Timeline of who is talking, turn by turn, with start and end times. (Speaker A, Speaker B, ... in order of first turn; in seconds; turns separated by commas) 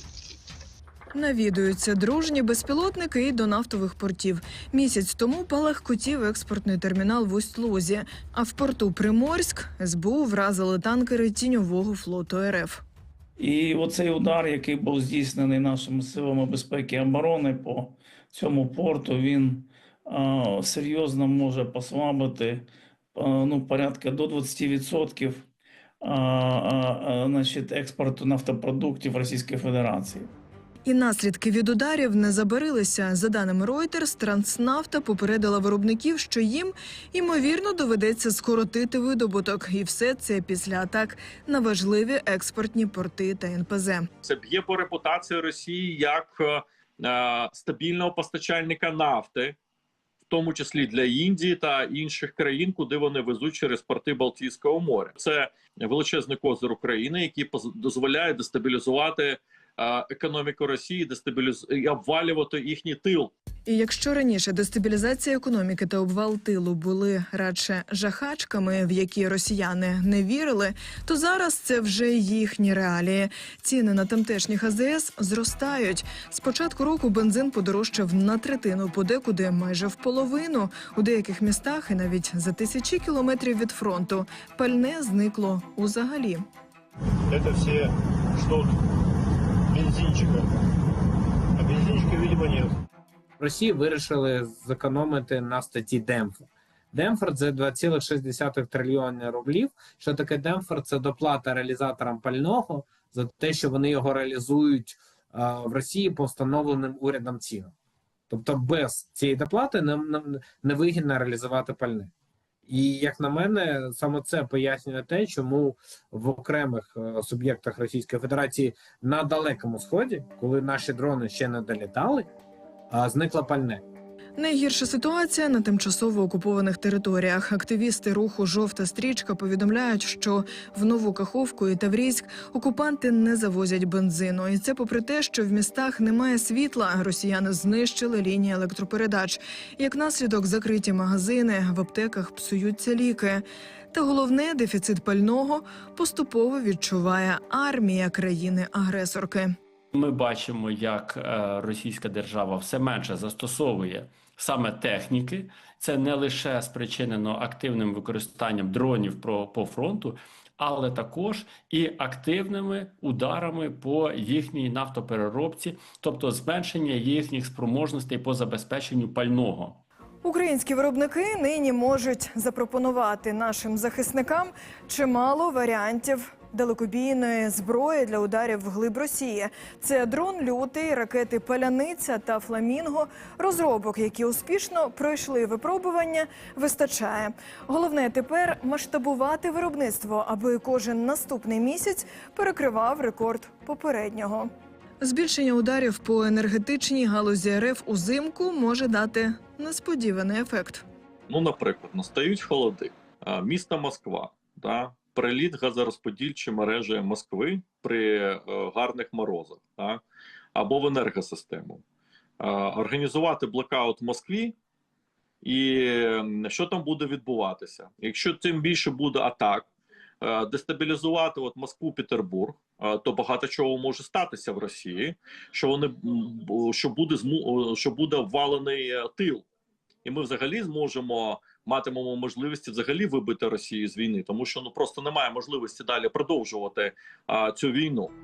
Speaker A: 1.1-12.8, Speaker B: 13.4-25.5, Speaker B: 26.0-30.3, Speaker A: 30.8-44.1, Speaker C: 44.2-49.6, Speaker C: 50.3-63.3, Speaker A: 63.6-86.4, Speaker D: 87.3-88.8, Speaker D: 89.7-90.5, Speaker D: 91.6-92.7, Speaker E: 93.4-107.7, Speaker E: 108.3-112.1, Speaker E: 112.7-122.3, Speaker E: 122.9-123.8, Speaker A: 124.4-149.5, Speaker F: 149.9-169.8, Speaker A: 170.2-194.5, Speaker A: 195.0-200.8, Speaker C: 201.3-210.0, Speaker C: 210.5-211.8, Speaker C: 212.4-214.5, Speaker C: 215.4-219.7, Speaker C: 220.2-229.4, Speaker C: 230.0-238.1